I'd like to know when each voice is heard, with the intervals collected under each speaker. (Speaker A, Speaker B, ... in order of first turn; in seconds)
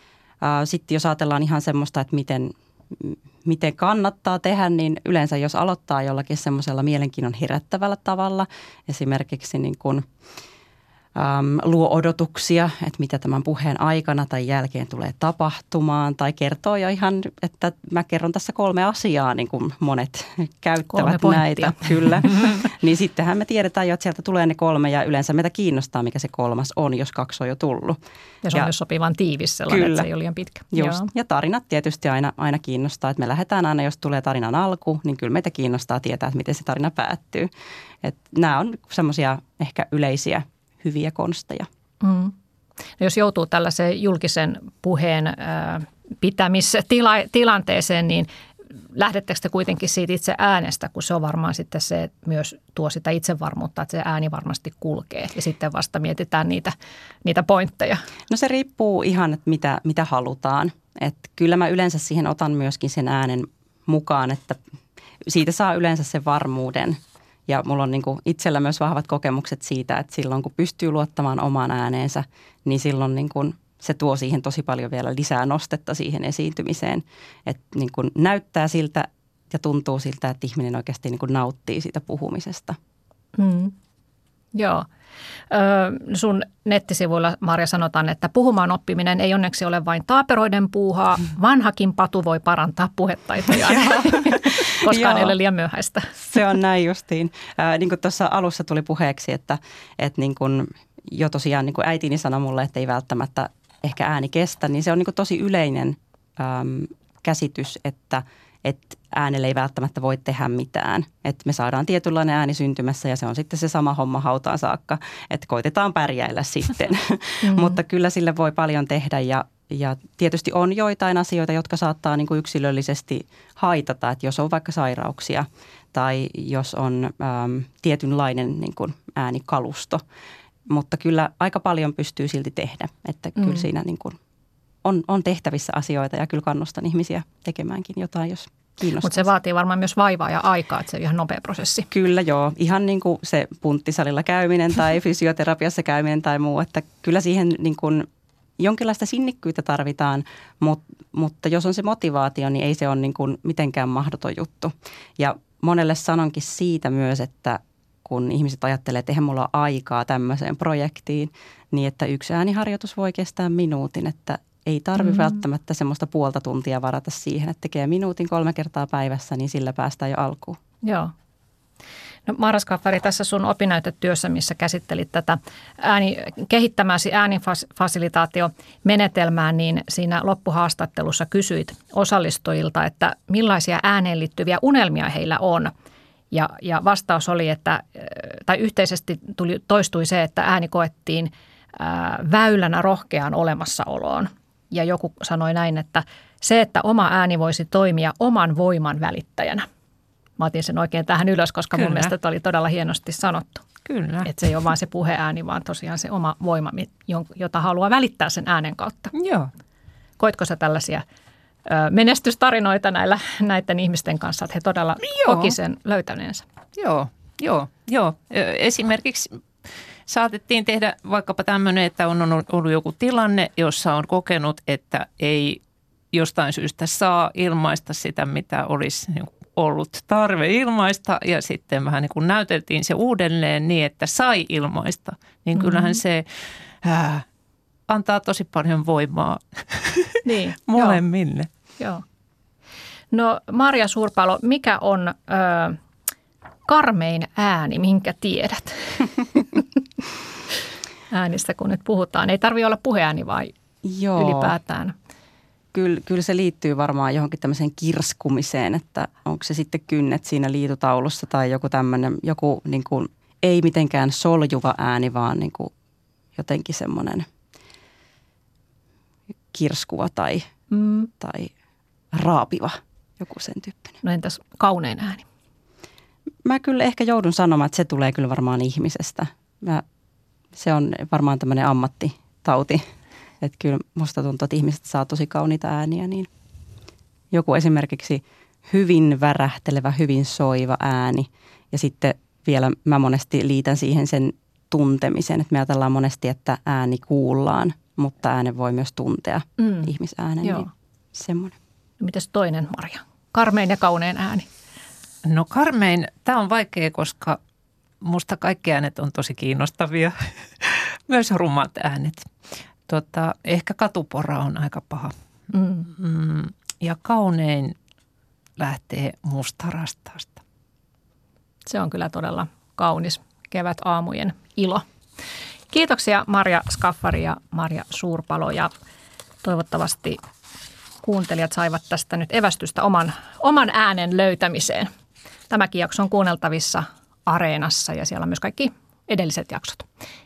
Speaker A: 0.4-10.1, 11.2-28.0, 29.7-30.1, 30.7-37.5, 38.0-41.7, 58.3-64.6, 65.2-82.8, 93.5-95.4, 96.2-130.0, 130.7-134.2, 134.8-139.3, 141.9-148.1, 148.6-170.6, 253.8-254.6, 255.7-265.7, 266.4-267.3, 269.5-270.5, 271.2-271.5, 272.1-273.9, 276.4-279.8, 280.5-282.8, 283.4-286.3, 287.3-301.6
Speaker B: 20.9-22.5, 28.4-31.1, 42.0-42.4, 43.0-48.3, 48.9-58.0, 83.4-83.8, 84.5-84.9, 85.5-96.4, 117.4-117.8, 133.4-133.6, 139.0-141.9, 165.0-165.4, 170.8-171.1, 172.3-185.7, 186.3-199.7, 200.4-203.6, 204.2-209.1, 210.2-211.0, 211.7-216.4, 235.6-236.0, 240.2-241.0, 243.1-245.8, 246.7-249.6, 251.1-253.5, 254.2-254.9, 270.7-271.1, 274.0-275.2, 299.6-299.9, 300.4-300.7, 302.0-304.5, 315.5-315.9, 321.7-324.9, 325.7-328.7, 329.4-330.2, 331.0-334.9, 335.5-339.9
Speaker C: 201.7-202.1, 203.8-204.3, 209.1-209.5, 215.0-215.6, 216.8-225.6, 226.1-237.3, 237.9-241.5, 305.2-307.4, 308.0-312.3, 312.9-315.1, 315.9-317.8, 318.6-320.4